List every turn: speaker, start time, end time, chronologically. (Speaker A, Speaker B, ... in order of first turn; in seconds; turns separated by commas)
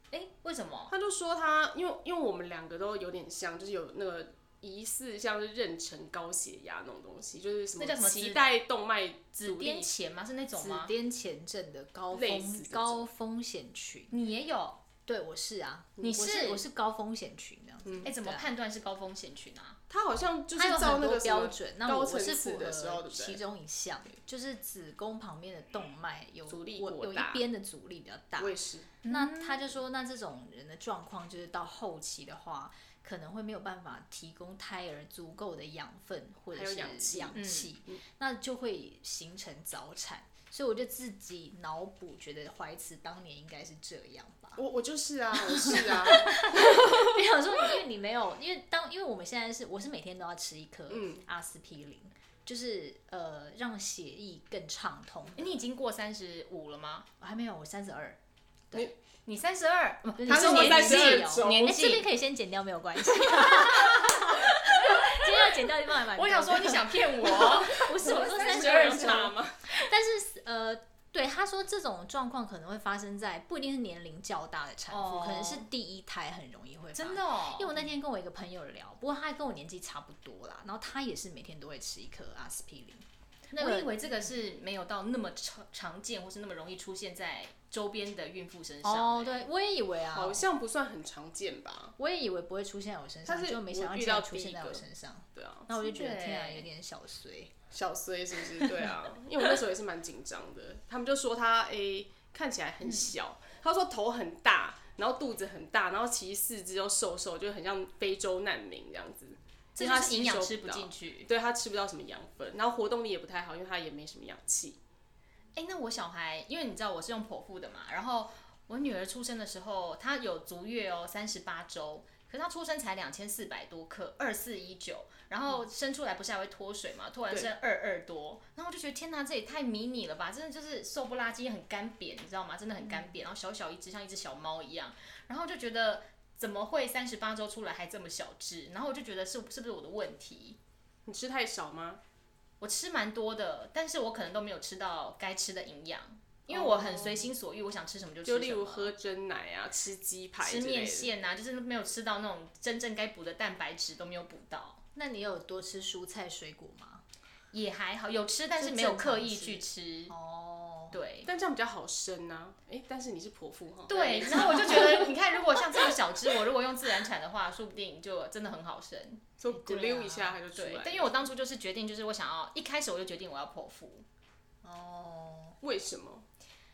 Speaker A: 0.1-0.9, Speaker B: 0.9-9.9, Speaker A: 7.8-8.5, Speaker A: 9.4-10.9, Speaker C: 10.6-14.1, Speaker B: 12.1-13.1, Speaker A: 14.1-14.8, Speaker C: 15.1-18.5, Speaker A: 16.0-16.6, Speaker B: 17.9-18.1, Speaker A: 18.0-19.8, Speaker B: 19.9-23.4, Speaker C: 20.5-44.6, Speaker B: 26.5-27.5, Speaker B: 28.4-28.9, Speaker A: 29.0-29.6, Speaker B: 36.5-38.0, Speaker A: 37.4-37.7, Speaker B: 44.6-47.1, Speaker C: 45.4-55.6, Speaker B: 50.9-51.2, Speaker A: 55.4-57.1, Speaker C: 57.2-58.2, Speaker A: 59.2-62.1, Speaker C: 60.2-83.9, Speaker B: 60.3-61.7, Speaker A: 63.2-65.3, Speaker A: 66.0-69.4, Speaker B: 67.2-69.6, Speaker A: 74.9-75.7, Speaker A: 76.9-77.8, Speaker A: 83.5-89.5, Speaker C: 88.8-90.4, Speaker B: 90.1-92.0, Speaker C: 92.0-97.5, Speaker B: 93.3-95.7, Speaker A: 95.8-96.7, Speaker B: 97.7-114.8, Speaker C: 98.6-98.8, Speaker A: 109.8-111.3, Speaker A: 115.6-140.6, Speaker B: 141.1-142.0, Speaker A: 142.6-148.9, Speaker B: 146.5-147.3, Speaker B: 148.2-151.1, Speaker A: 150.4-154.8, Speaker C: 154.9-157.0, Speaker A: 157.5-160.1, Speaker C: 158.6-161.0, Speaker A: 160.9-161.3, Speaker B: 161.2-165.2, Speaker A: 163.9-169.3, Speaker B: 169.4-171.2, Speaker C: 169.5-170.4, Speaker A: 170.6-174.1, Speaker C: 174.6-175.6, Speaker B: 175.6-176.3